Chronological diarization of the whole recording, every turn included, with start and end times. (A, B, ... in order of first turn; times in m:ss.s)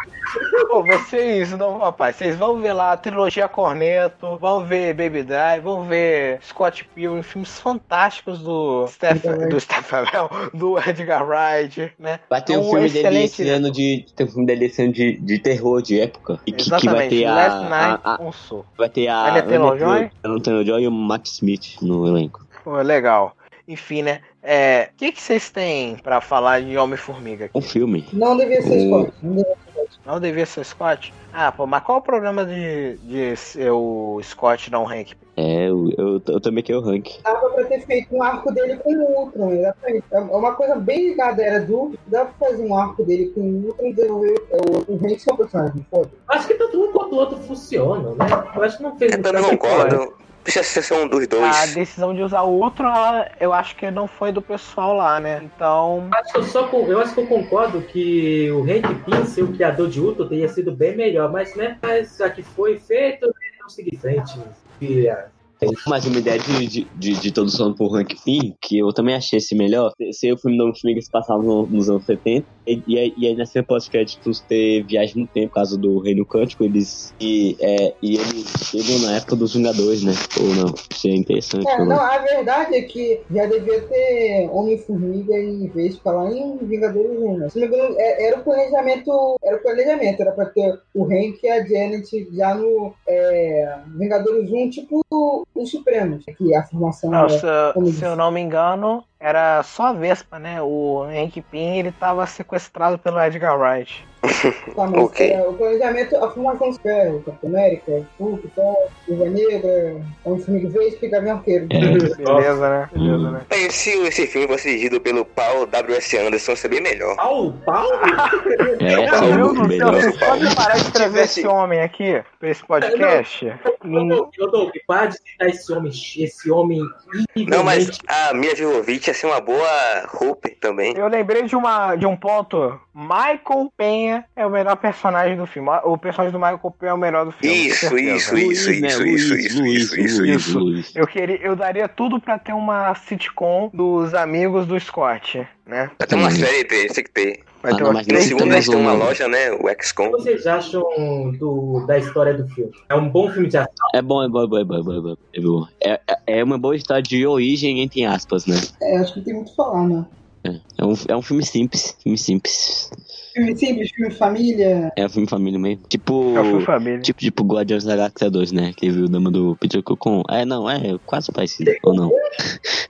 0:00.7-0:13.6 A
0:09.1-0:09.6 B
0:12.3-0:18.2 C
0:16.5-0:18.7 A
0:18.8-0:22.4 C
0:19.2-0:20.1 A
0:22.7-0:27.6 A
0:27.5-0:29.1 C
0:28.1-0:29.9 B
0:30.1-0:35.2 A
0:35.4-0:37.2 C
0:37.2-0:46.2 B
0:46.3-0:50.0 D
0:49.1-0:51.8 E
0:51.4-0:56.2 A
0:56.1-1:05.8 D
1:05.6-1:22.0 C
1:21.6-1:38.1 B
1:37.1-1:44.0 A
1:44.3-1:45.4 E
1:44.8-1:51.8 B
1:51.7-1:52.0 C
1:51.8-1:52.5 D
1:52.2-1:53.5 A
1:53.0-1:53.4 C
1:53.5-1:57.2 E
1:57.2-1:59.5 D
1:57.9-1:58.3 A
1:58.8-2:00.5 C
1:59.1-2:04.3 A
1:59.3-2:01.5 E
2:02.8-2:08.0 D
2:07.5-2:11.0 E
2:10.9-2:18.4 A
2:17.4-2:20.3 E
2:18.3-2:21.0 C
2:20.2-2:25.9 A
2:26.0-2:27.5 E
2:26.0-2:26.5 C
2:27.6-2:28.7 A
2:27.7-2:29.2 C
2:28.1-2:30.3 E
2:30.1-2:33.7 D
2:33.9-2:38.7 C
2:38.8-2:40.1 B
2:40.4-2:42.9 C
2:43.3-2:44.9 B
2:45.0-2:52.6 C
2:46.3-2:47.1 A
2:51.6-2:52.2 D